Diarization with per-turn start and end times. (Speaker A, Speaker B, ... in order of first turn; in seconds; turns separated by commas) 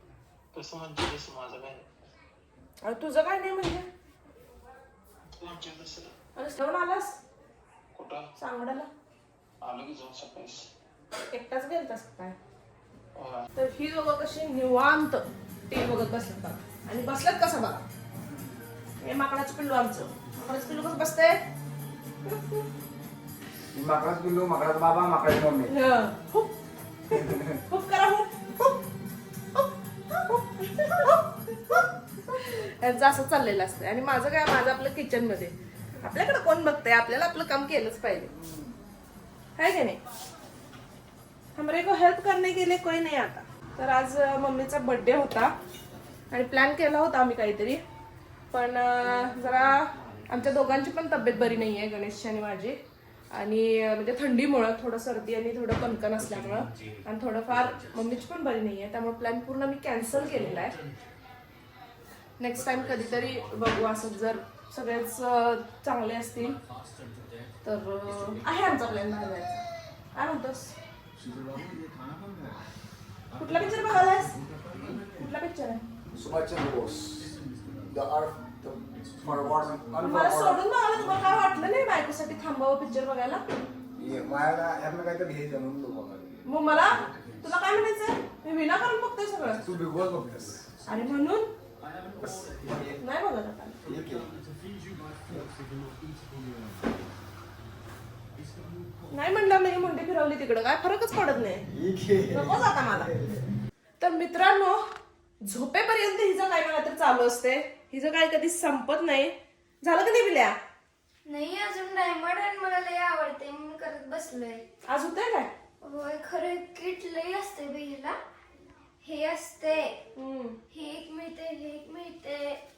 Speaker A: 0.5-1.9, Speaker B: 2.8-3.9, Speaker A: 5.4-6.1, Speaker B: 6.3-7.2, Speaker A: 7.9-8.3, Speaker B: 8.4-8.9, Speaker A: 9.6-10.7, Speaker B: 11.3-12.4, Speaker A: 13.2-13.5, Speaker B: 13.5-17.8, Speaker B: 19.0-21.4, Speaker B: 22.2-22.6, Speaker C: 23.7-25.7, Speaker B: 25.7-26.6, Speaker B: 27.1-28.8, Speaker C: 27.1-27.6, Speaker B: 29.6-38.3, Speaker B: 39.6-40.0, Speaker B: 41.6-45.5, Speaker B: 46.3-47.8, Speaker B: 48.5-52.8, Speaker B: 53.3-60.8, Speaker B: 62.4-66.6, Speaker B: 67.6-70.7, Speaker B: 73.4-74.4, Speaker B: 75.0-75.8, Speaker C: 76.1-77.4, Speaker C: 77.9-80.6, Speaker B: 80.0-83.4, Speaker C: 84.0-86.4, Speaker B: 86.5-89.6, Speaker C: 89.6-90.7, Speaker B: 90.8-91.5, Speaker C: 92.2-93.0, Speaker B: 93.0-93.8, Speaker C: 93.8-94.3, Speaker B: 99.1-101.7, Speaker C: 101.7-103.5, Speaker B: 102.3-103.1, Speaker B: 104.0-104.8, Speaker B: 105.4-110.5, Speaker D: 111.3-114.6, Speaker B: 114.9-115.5, Speaker D: 115.8-118.1, Speaker D: 119.0-120.0, Speaker B: 120.2-120.6, Speaker D: 120.7-122.6